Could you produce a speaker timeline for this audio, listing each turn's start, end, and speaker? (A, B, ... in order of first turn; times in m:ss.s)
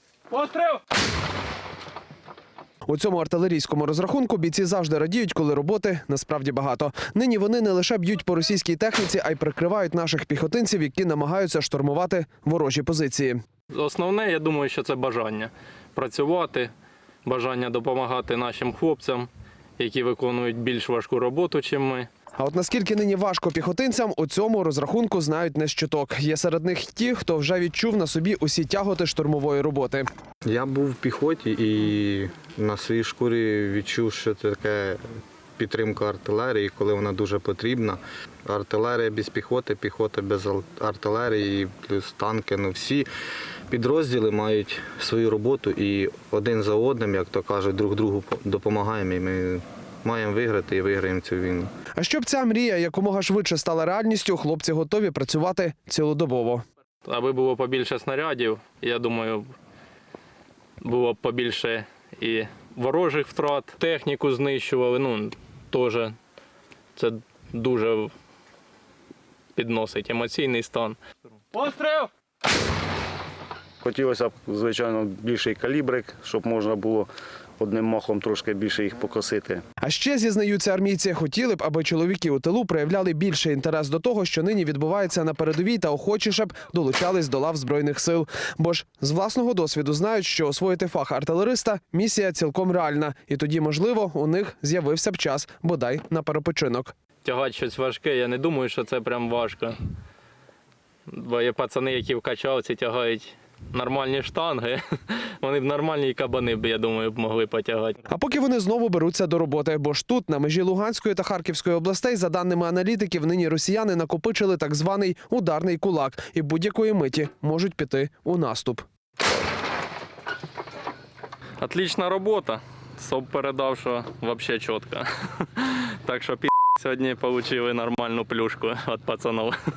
0:02.9-0:13.4 A
0:13.7-0:16.7 B
0:17.2-0:22.1 B
0:22.4-0:30.0 A
0:30.4-0:35.0 C
0:35.6-0:43.1 C
0:43.7-0:51.7 C
0:52.0-0:56.6 A
0:57.0-0:59.5 B
1:00.8-1:06.2 B
1:07.0-1:08.1 B
1:09.6-1:11.0 B
1:13.8-1:19.6 D
1:19.8-1:36.9 A
1:37.2-1:39.8 B
1:41.1-1:48.0 B
1:48.1-1:58.8 A
2:01.6-2:09.6 B